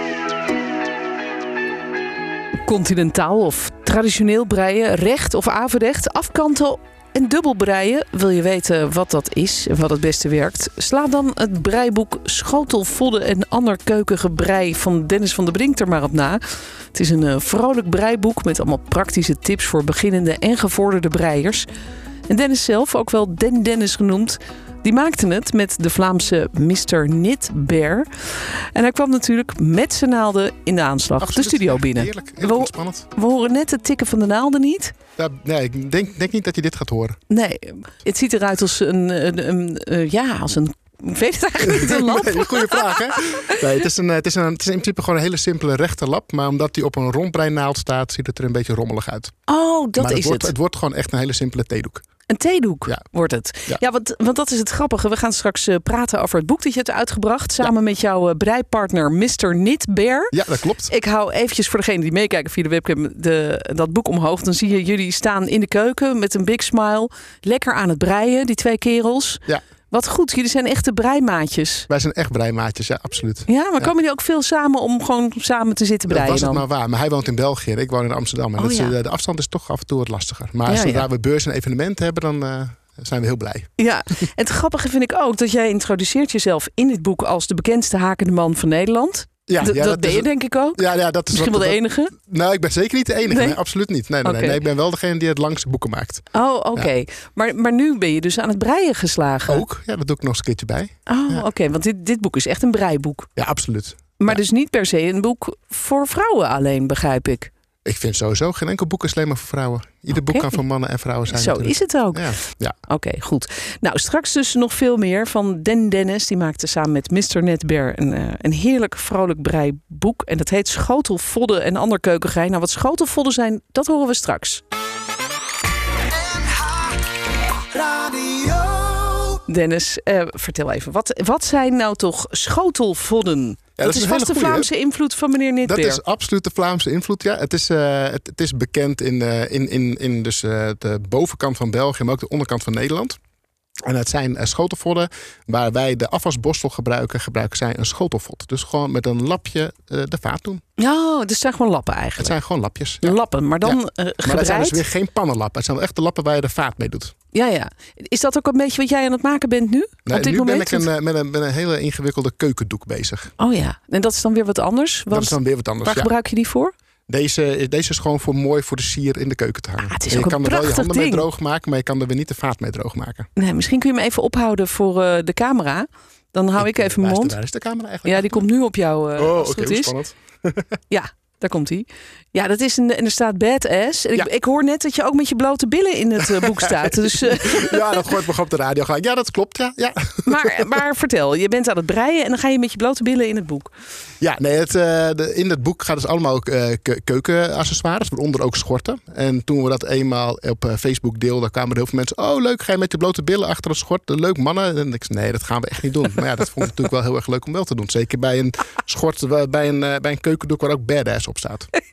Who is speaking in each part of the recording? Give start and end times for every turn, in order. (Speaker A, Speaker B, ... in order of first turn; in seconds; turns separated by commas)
Speaker A: 2.6-21.7, Speaker A: 22.3-34.9, Speaker B: 31.2-33.1, Speaker B: 35.1-37.2, Speaker A: 37.3-43.6, Speaker B: 41.6-49.3, Speaker A: 49.5-50.5, Speaker B: 50.0-52.0, Speaker A: 52.3-71.9, Speaker B: 60.3-60.9, Speaker B: 71.9-73.9, Speaker A: 73.5-76.6, Speaker B: 76.1-83.7, Speaker A: 78.6-78.9, Speaker A: 80.7-81.1, Speaker A: 83.8-92.2, Speaker B: 89.5-96.2, Speaker A: 93.2-93.6, Speaker A: 94.2-94.6, Speaker A: 96.3-99.6, Speaker B: 99.5-101.5, Speaker A: 101.1-103.3, Speaker B: 103.4-104.4, Speaker A: 104.2-107.5, Speaker B: 107.8-112.7, Speaker A: 110.1-110.6, Speaker A: 111.3-112.3, Speaker A: 112.8-124.6, Speaker A: 127.9-136.0, Speaker B: 133.8-134.7, Speaker B: 135.6-143.2, Speaker B: 143.8-150.6, Speaker A: 150.8-152.3, Speaker B: 152.2-157.1, Speaker A: 153.0-154.8, Speaker A: 157.3-160.9, Speaker B: 160.1-163.3, Speaker A: 163.4-166.7, Speaker B: 165.1-166.1, Speaker B: 167.1-173.3, Speaker A: 169.8-171.2, Speaker A: 173.3-177.4, Speaker B: 176.6-178.4, Speaker A: 178.0-179.9, Speaker B: 179.2-180.6, Speaker A: 180.9-188.0, Speaker B: 186.2-190.8, Speaker A: 190.2-193.7, Speaker B: 194.2-211.7